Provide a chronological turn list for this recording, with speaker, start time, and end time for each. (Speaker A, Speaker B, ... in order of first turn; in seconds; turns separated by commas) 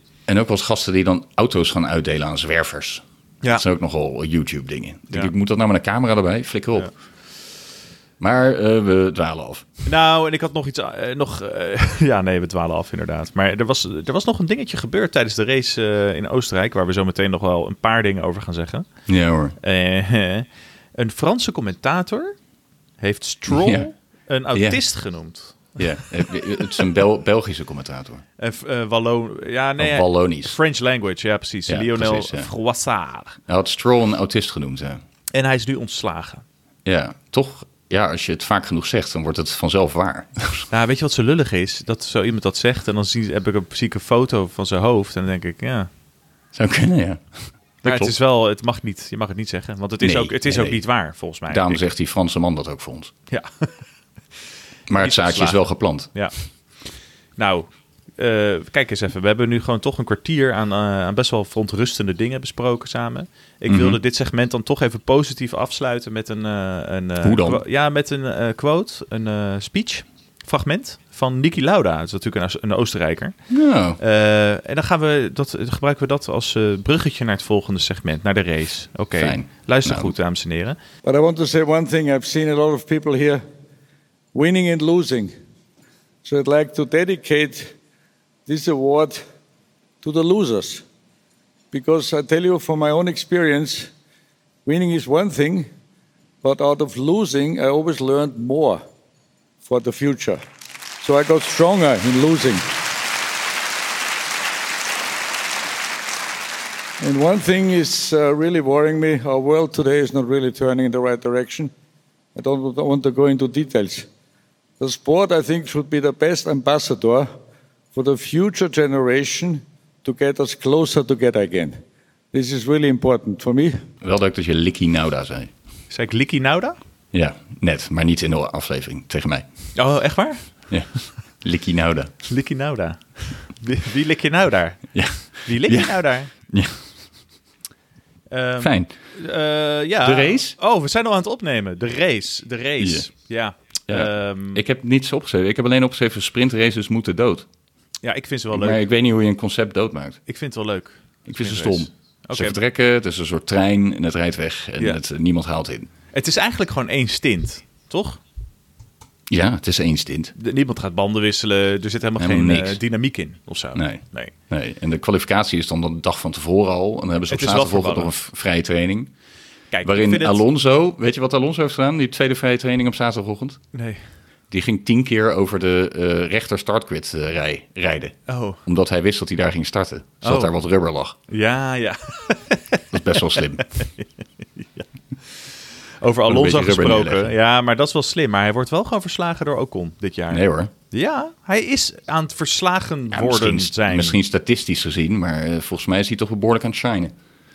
Speaker A: 0.3-6.9, Speaker A: 8.2-9.7, Speaker B: 9.8-18.9, Speaker A: 19.1-19.6, Speaker B: 19.6-22.4, Speaker B: 23.0-26.1, Speaker A: 23.5-23.9, Speaker A: 24.5-24.8, Speaker A: 25.8-28.2, Speaker B: 28.4-33.4, Speaker A: 29.8-30.6, Speaker A: 31.7-32.5, Speaker A: 33.5-35.0, Speaker B: 35.3-36.4, Speaker A: 36.8-40.7, Speaker B: 40.7-45.9, Speaker A: 46.5-48.1, Speaker B: 47.8-51.9, Speaker A: 50.0-53.1, Speaker B: 53.3-53.9, Speaker A: 54.9-56.1, Speaker B: 55.0-56.4, Speaker B: 57.4-57.7, Speaker B: 58.2-73.4, Speaker A: 63.7-64.0, Speaker A: 67.2-67.6, Speaker A: 73.5-74.0, Speaker B: 74.0-80.8, Speaker A: 79.2-80.1, Speaker C: 81.0-83.4, Speaker C: 84.3-85.3, Speaker C: 86.2-87.7, Speaker C: 88.5-89.2, Speaker C: 90.0-90.8, Speaker C: 91.7-93.9, Speaker C: 94.7-95.7, Speaker C: 96.4-98.8, Speaker C: 99.6-100.4, Speaker C: 101.0-102.7, Speaker C: 107.0-111.7, Speaker C: 112.3-114.1, Speaker C: 114.8-117.3, Speaker C: 117.9-121.8, Speaker C: 122.3-123.8, Speaker A: 124.0-125.5, Speaker B: 125.9-126.8, Speaker A: 127.1-129.4, Speaker B: 129.7-130.6, Speaker A: 130.7-132.1, Speaker B: 132.2-136.3, Speaker A: 134.9-136.8, Speaker B: 138.3-144.6, Speaker A: 138.6-138.9, Speaker A: 140.0-140.6, Speaker A: 142.8-143.1, Speaker A: 143.9-147.5, Speaker B: 148.0-148.8, Speaker A: 148.5-150.2, Speaker B: 150.3-152.6, Speaker A: 151.2-155.9, Speaker B: 156.1-158.2, Speaker A: 159.3-160.3, Speaker B: 160.4-164.3, Speaker A: 162.2-162.8, Speaker A: 163.7-169.1, Speaker B: 167.3-168.1, Speaker B: 169.7-170.4, Speaker A: 169.8-173.6, Speaker B: 173.7-174.0, Speaker A: 174.5-181.2, Speaker B: 178.3-178.6, Speaker B: 180.2-180.5, Speaker B: 181.3-184.1, Speaker A: 182.9-183.6, Speaker B: 184.6-184.8, Speaker B: 186.0-194.2, Speaker A: 186.3-187.3, Speaker A: 190.3-190.7, Speaker A: 193.1-197.1